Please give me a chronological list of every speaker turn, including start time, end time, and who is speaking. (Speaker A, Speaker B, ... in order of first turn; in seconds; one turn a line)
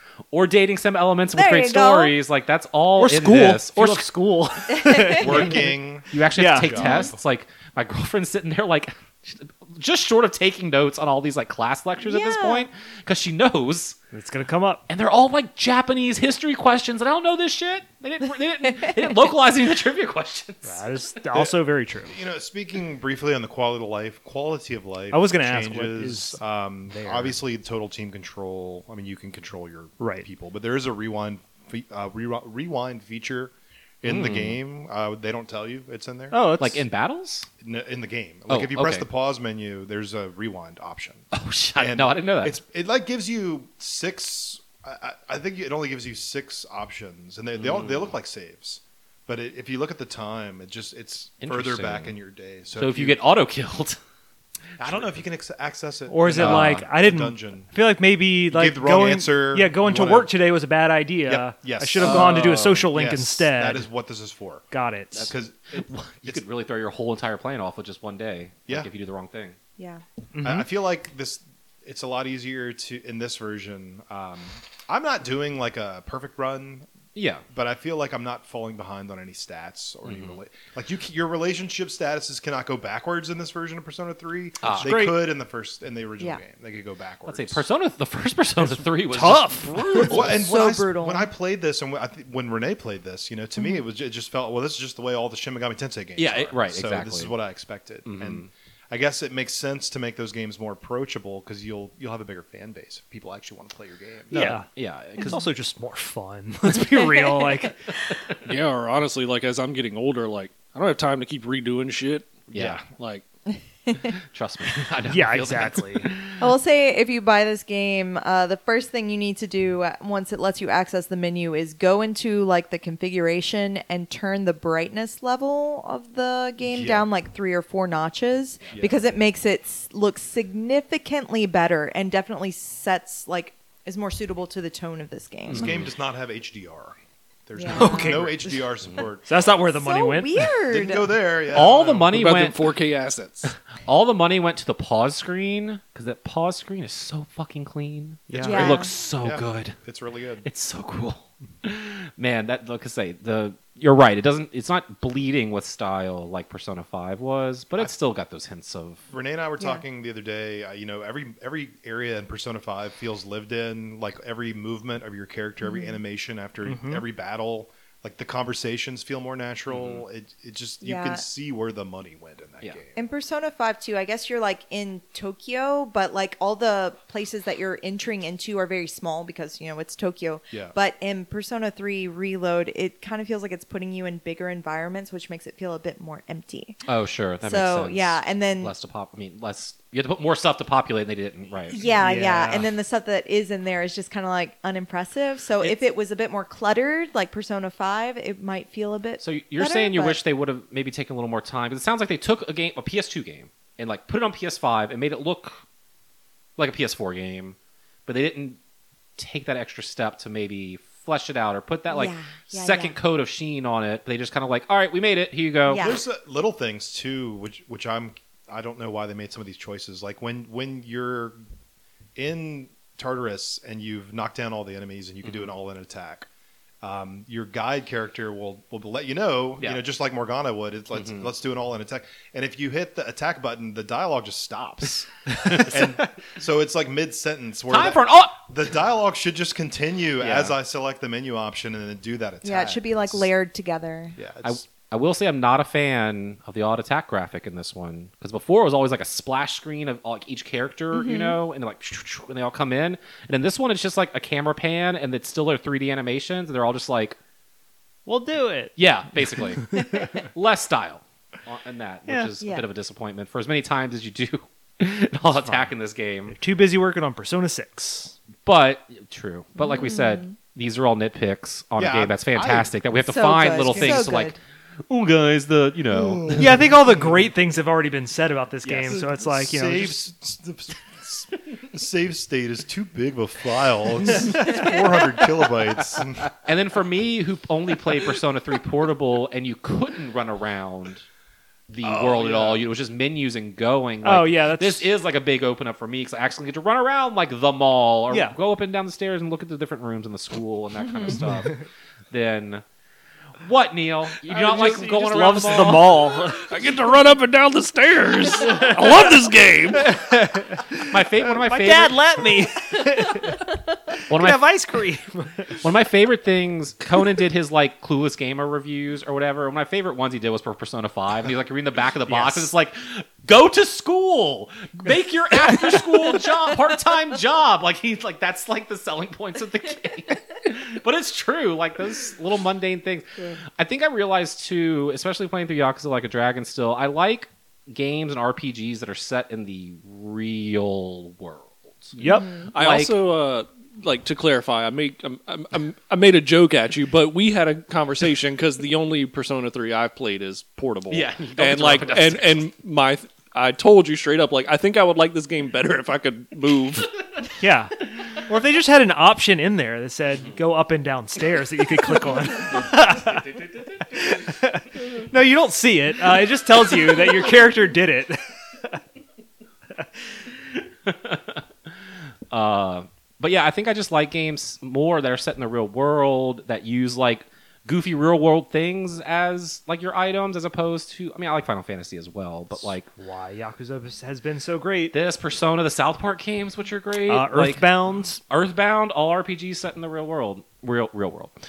Speaker A: 0.3-4.1
Speaker B: 1.3-2.1
Speaker C: 3.0-5.7
Speaker B: 4.8-5.2
Speaker D: 5.2-7.2
Speaker A: 6.1-13.9
Speaker C: 6.3-6.8
Speaker B: 6.8-7.1
Speaker B: 12.0-12.7
Speaker C: 14.1-14.8
Speaker A: 14.9-20.9
Speaker C: 20.6-22.1
Speaker D: 22.1-36.4
Speaker C: 25.1-27.3
Speaker C: 30.0-30.2
Speaker A: 34.0-34.6
Speaker C: 36.3-36.9
Speaker A: 36.6-37.5
Speaker D: 37.6-41.2
Speaker A: 38.5-39.1
Speaker A: 41.3-42.6
Speaker D: 41.8-53.2
Speaker A: 47.6-48.1
Speaker A: 51.4-52.1
Speaker A: 52.8-54.0
Speaker D: 54.8-57.7
Speaker C: 56.1-63.9
Speaker A: 56.3-56.8
Speaker D: 58.5-60.3
Speaker D: 61.3-66.4
Speaker A: 62.0-62.8
Speaker C: 64.7-65.3
Speaker A: 65.1-69.5
Speaker B: 69.8-70.0
Speaker C: 70.3-70.7
Speaker D: 70.4-76.9
Speaker A: 77.1-77.4
Speaker D: 77.5-87.6
Speaker A: 80.0-80.3
Speaker A: 84.6-85.2
Speaker A: 87.3-90.3
Speaker C: 89.0-90.2
Speaker D: 90.0-104.6
Speaker B: 90.2-91.3
Speaker A: 96.2-97.3
Speaker A: 98.0-98.5
Speaker C: 104.3-104.7
Speaker A: 104.3-105.4
Speaker C: 105.2-107.8
Speaker B: 107.2-107.5
Speaker E: 108.4-113.2
Speaker A: 112.5-112.8
Speaker B: 113.8-114.1
Speaker A: 114.3-116.4
Speaker C: 115.1-116.3
Speaker B: 116.4-135.8
Speaker D: 126.7-127.1
Speaker D: 128.7-129.0
Speaker A: 135.5-135.8
Speaker D: 135.5-139.6
Speaker B: 137.6-138.4
Speaker C: 137.7-138.5
Speaker C: 139.2-140.4
Speaker B: 139.8-141.1
Speaker D: 140.7-142.1
Speaker A: 141.5-142.6
Speaker E: 142.1-143.5
Speaker A: 143.5-149.8
Speaker D: 148.3-150.4
Speaker C: 148.3-148.7
Speaker B: 148.4-148.9
Speaker A: 150.4-159.0
Speaker D: 159.1-173.1
Speaker B: 165.6-165.9
Speaker C: 166.7-167.0
Speaker A: 169.7-170.0
Speaker B: 170.8-171.2
Speaker B: 172.9-186.8
Speaker A: 186.8-191.8
Speaker B: 187.4-188.7
Speaker B: 191.7-200.2
Speaker C: 192.0-192.7
Speaker A: 199.2-205.6
Speaker A: 206.6-208.6
Speaker A: 209.2-215.8
Speaker B: 211.9-213.0
Speaker B: 215.7-216.0
Speaker D: 215.8-221.4
Speaker D: 222.2-226.3
Speaker A: 225.2-225.5
Speaker D: 226.8-235.1
Speaker A: 230.9-231.3
Speaker A: 235.4-235.8
Speaker D: 235.7-243.3
Speaker A: 237.7-238.4
Speaker A: 240.2-240.5
Speaker B: 242.4-244.2
Speaker D: 244.2-244.7
Speaker A: 244.4-257.2
Speaker B: 250.9-251.4
Speaker C: 258.1-260.1
Speaker A: 258.8-266.3
Speaker C: 262.1-262.3
Speaker B: 262.4-262.6
Speaker C: 265.4-265.7
Speaker C: 266.3-268.2
Speaker A: 268.4-274.4
Speaker B: 269.6-270.4
Speaker D: 271.8-272.7
Speaker B: 273.0-274.4
Speaker A: 274.9-276.5
Speaker D: 275.9-277.0
Speaker C: 276.3-280.0
Speaker A: 278.6-279.0
Speaker D: 278.9-286.3
Speaker C: 284.2-284.7
Speaker A: 286.4-291.0
Speaker A: 291.7-301.6
Speaker D: 291.9-292.6
Speaker C: 294.0-294.9
Speaker C: 298.1-298.4
Speaker A: 302.1-302.6
Speaker A: 303.4-306.0
Speaker C: 304.2-306.5
Speaker E: 306.5-309.9
Speaker C: 308.5-308.8
Speaker C: 309.7-315.6
Speaker A: 310.9-312.0
Speaker A: 314.1-314.4
Speaker A: 315.6-342.0
Speaker C: 322.1-322.5
Speaker C: 342.0-342.3
Speaker B: 342.1-342.5
Speaker E: 342.1-356.9
Speaker A: 342.5-342.9
Speaker A: 350.9-352.4
Speaker C: 357.4-368.8
Speaker A: 363.1-364.0
Speaker A: 370.9-371.7
Speaker A: 372.3-382.9
Speaker C: 382.6-384.9
Speaker A: 384.9-391.3
Speaker C: 387.1-388.2